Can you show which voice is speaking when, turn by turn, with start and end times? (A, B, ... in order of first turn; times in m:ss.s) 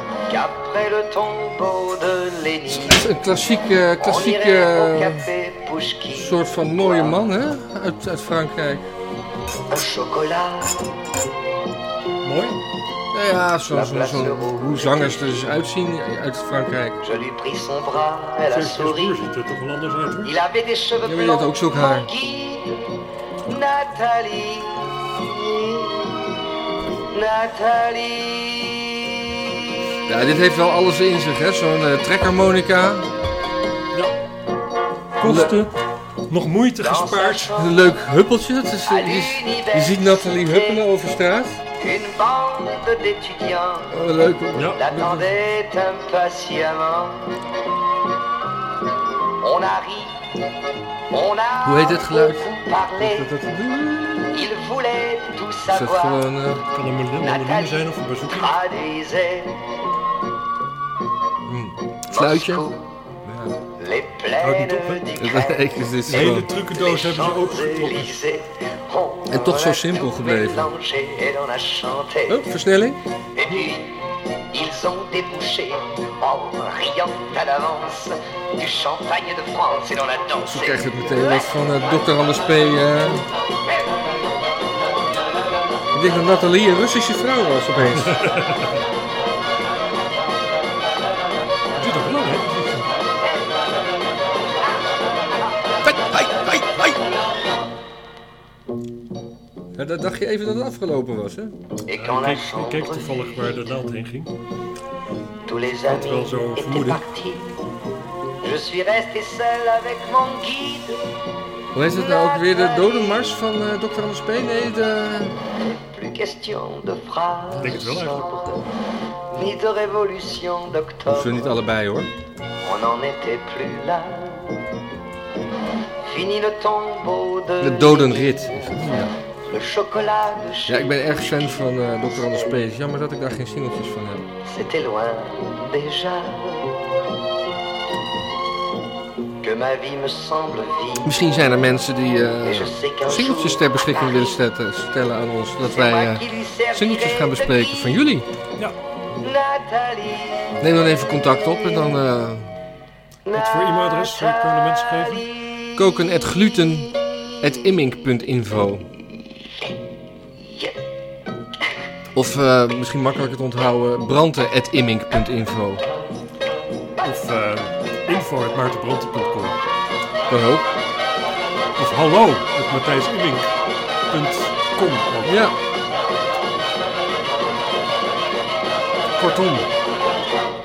0:00.3-0:03.1 A
0:02.7-0:05.3 B
0:04.0-0:07.3 A
0:06.1-0:08.9 B
0:09.7-0:10.8 A
0:12.2-0:12.6 C
0:13.1-0:17.0 B
0:13.7-0:15.6 A
0:17.0-0:19.2 A
0:18.5-0:20.4 C
0:20.2-0:26.4 A
0:21.0-0:22.1 B
0:27.1-0:28.8 A
0:30.0-0:33.1 B
0:35.2-0:35.7 C
0:35.2-0:35.6 B
0:36.3-0:37.5 C
0:36.8-0:38.0 A
0:37.5-0:41.6 B
0:38.8-0:40.8 A
0:41.8-0:44.0 A
0:43.9-0:45.3 B
0:44.5-0:44.8 C
0:44.7-0:47.4 A
0:49.4-0:50.3 A
0:51.1-0:53.3 A
0:51.6-0:52.5 B
0:53.0-0:54.5 B
0:54.3-0:56.2 A
0:55.7-0:56.6 B
0:56.7-0:58.6 C
0:57.2-0:59.8 A
1:01.4-1:02.6 B
1:02.1-1:02.9 A
1:03.2-1:03.6 B
1:03.8-1:12.5 A
1:04.4-1:05.1 C
1:05.2-1:06.5 B
1:06.0-1:08.1 C
1:09.3-1:10.7 B
1:12.3-1:13.0 B
1:13.3-1:21.3 A
1:20.4-1:23.2 B
1:25.9-1:28.2 B
1:27.9-1:28.8 C
1:31.8-1:32.9 C
1:35.9-1:37.0 B
1:39.8-1:41.6 B
1:41.8-1:43.7 A
1:41.9-1:44.3 C
1:45.4-1:47.6 A
1:45.9-1:47.0 C
1:48.4-1:51.0 A
1:51.7-1:55.4 B
1:51.9-1:53.3 A
1:55.5-1:58.7 A
1:57.6-1:58.2 C
1:59.3-2:01.6 A
2:01.1-2:02.1 B
2:02.6-2:04.6 A
2:06.0-2:12.6 A
2:07.6-2:09.1 B
2:10.7-2:14.2 B
2:14.4-2:16.8 A
2:19.4-2:21.1 A
2:21.0-2:28.3 B
2:22.4-2:24.4 A
2:25.6-2:28.0 A
2:29.2-2:30.6 A
2:30.6-2:32.5 B
2:33.2-2:35.7 A
2:33.3-2:35.3 C
2:35.7-2:38.8 B
2:40.4-2:40.7 A
2:42.1-2:45.8 B
2:47.0-2:49.6 C
2:50.3-2:50.8 B
2:51.8-2:53.6 C
2:54.1-2:55.5 C
2:55.2-2:55.6 B
2:59.1-2:59.7 C